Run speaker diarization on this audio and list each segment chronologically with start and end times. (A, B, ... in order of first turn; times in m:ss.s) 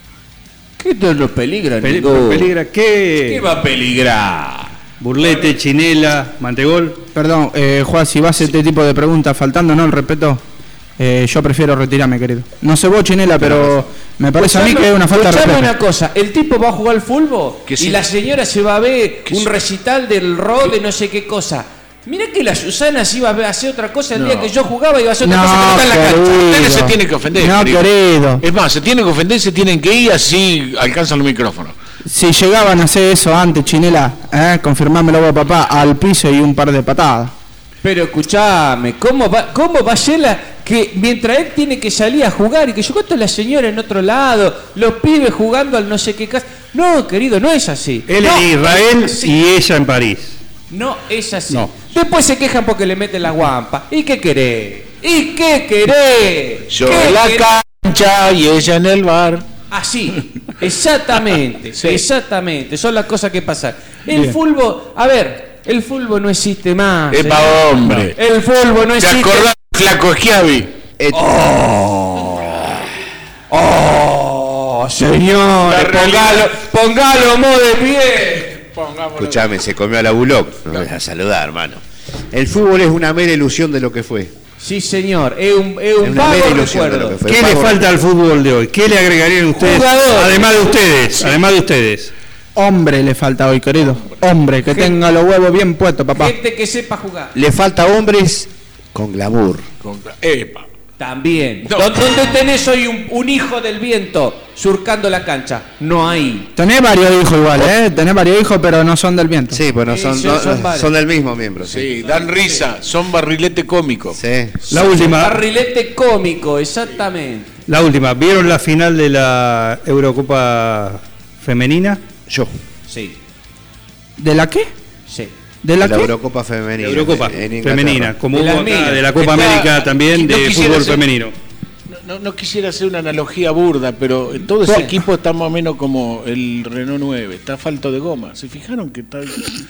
0:00.8-0:02.5 A
0:01.8-0:03.4 B
0:03.2-0:04.7 A
0:05.0-0:07.0 B
0:07.1-0:10.4 C
0:11.0-0:15.7 C
0:14.4-0:26.7 A
0:17.7-0:18.0 D
0:24.1-0:24.5 D
0:25.2-0:28.4 C
0:26.5-0:31.7 D
0:32.1-0:37.3 C
0:37.8-0:49.4 A
0:48.1-0:50.4 B
0:50.7-0:57.6 A
0:56.7-0:59.4 D
0:59.7-1:09.5 A
1:01.8-1:02.0 D
1:07.1-1:08.1 D
1:07.9-1:08.1 B
1:09.0-1:10.7 D
1:11.0-1:11.3 E
1:11.1-1:12.9 A
1:13.5-1:18.6 A
1:15.6-1:16.5 D
1:18.7-1:19.4 D
1:19.1-1:24.3 E
1:24.6-1:27.2 A
1:26.0-1:27.9 E
1:27.2-1:32.1 B
1:29.6-1:31.4 A
1:32.6-1:36.4 C
1:34.7-1:34.9 A
1:36.2-1:37.3 A
1:37.3-1:39.7 E
1:39.8-1:40.6 D
1:41.0-1:46.5 A
1:41.6-1:42.0 D
1:46.6-1:49.6 C
1:49.5-1:51.9 E
1:49.9-1:50.9 A
1:51.6-1:54.2 D
1:52.0-1:52.6 A
1:54.1-1:54.6 E
1:54.6-1:57.5 A
1:54.7-1:55.4 B
1:57.7-2:02.0 B
2:02.9-2:03.2 A
2:04.2-2:04.7 C
2:05.1-2:05.3 A
2:05.6-2:06.1 C
2:05.8-2:08.1 E
2:06.8-2:11.3 B
2:08.3-2:09.6 A
2:09.2-2:11.0 D
2:11.9-2:19.5 D
2:14.6-2:14.9 A